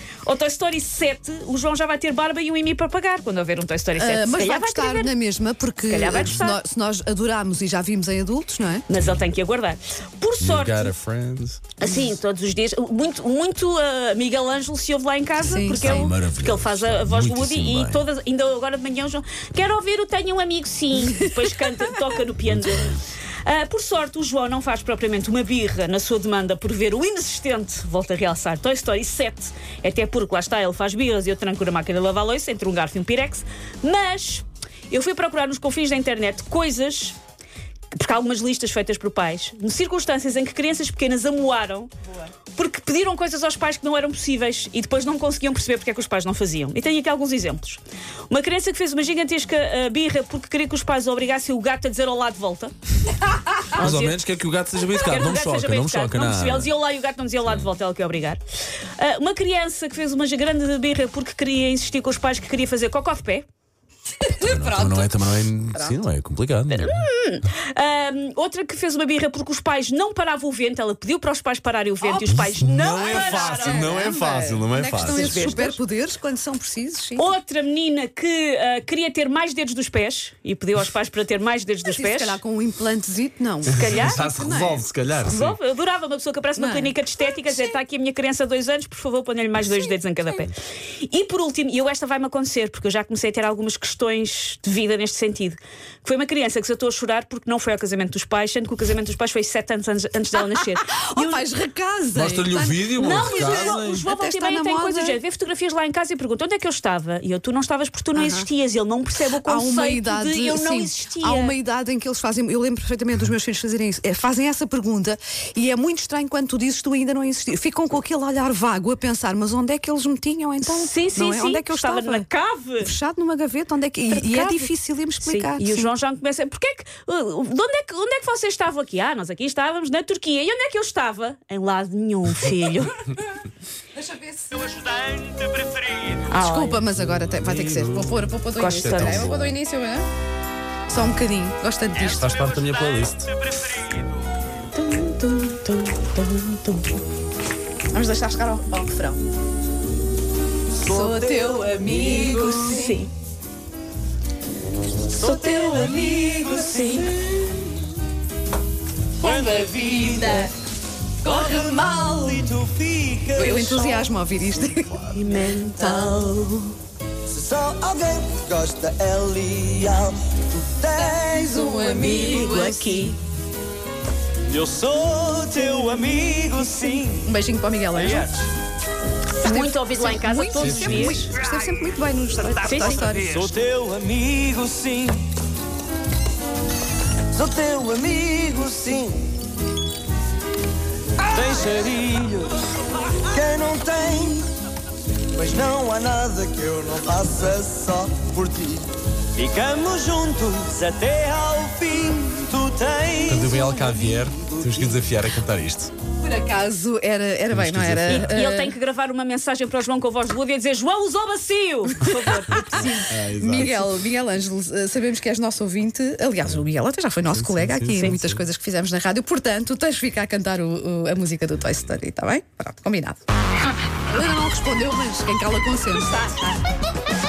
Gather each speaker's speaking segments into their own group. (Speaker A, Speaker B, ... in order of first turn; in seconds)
Speaker A: 0.2-5.1, 5.8-6.6, 8.9-10.9, 11.8-22.9, 23.4-37.2, 37.9-41.9, 42.5-52.7, 53.6-54.2, 54.9-58.4, 59.0-63.5, 66.7-74.0, 75.0-75.8, 77.2-82.4, 83.7-84.2, 85.2-101.5, 103.0-111.6, 120.7-122.9, 124.1-133.1, 136.3-136.8, 138.6-139.3, 144.7-147.0, 152.1-153.1, 165.1-166.8, 172.0-173.2, 179.4-181.3, 182.6-183.1, 208.1-213.0, 217.9-218.2
Speaker B: 4.0-8.8, 15.4-15.9, 64.2-65.2, 65.7-66.0, 72.0-72.5, 73.0-77.3, 81.8-84.8, 86.6-87.7, 89.6-89.9, 100.3-105.2, 108.2-108.5, 109.4-122.3, 122.8-125.9, 134.0-134.7, 136.3-140.1, 140.9-142.4, 147.9-149.2, 150.8-153.0, 155.2-156.2, 159.2-160.5, 161.2-162.5, 163.3-164.9, 171.4-173.1, 177.2-178.4, 179.4-183.4, 206.2-208.8, 212.0-223.2, 224.1-226.6
Speaker C: 10.4-11.6, 15.4-18.0, 22.4-23.0, 53.7-56.7, 64.4-67.1, 72.3-75.6, 83.7-85.6, 102.1-104.0, 137.0-139.6, 142.0-143.4, 180.6-181.2, 203.2-205.9, 207.5-208.4, 212.5-214.0, 217.3-218.4
Speaker D: 150.7-152.8, 155.1-157.6, 159.2-160.5, 161.2-164.1, 164.7-165.6, 167.3-172.7, 174.5-177.3, 177.9-178.4, 183.1-185.3, 187.3-189.4, 191.2-192.6, 193.3-194.5, 195.3-205.1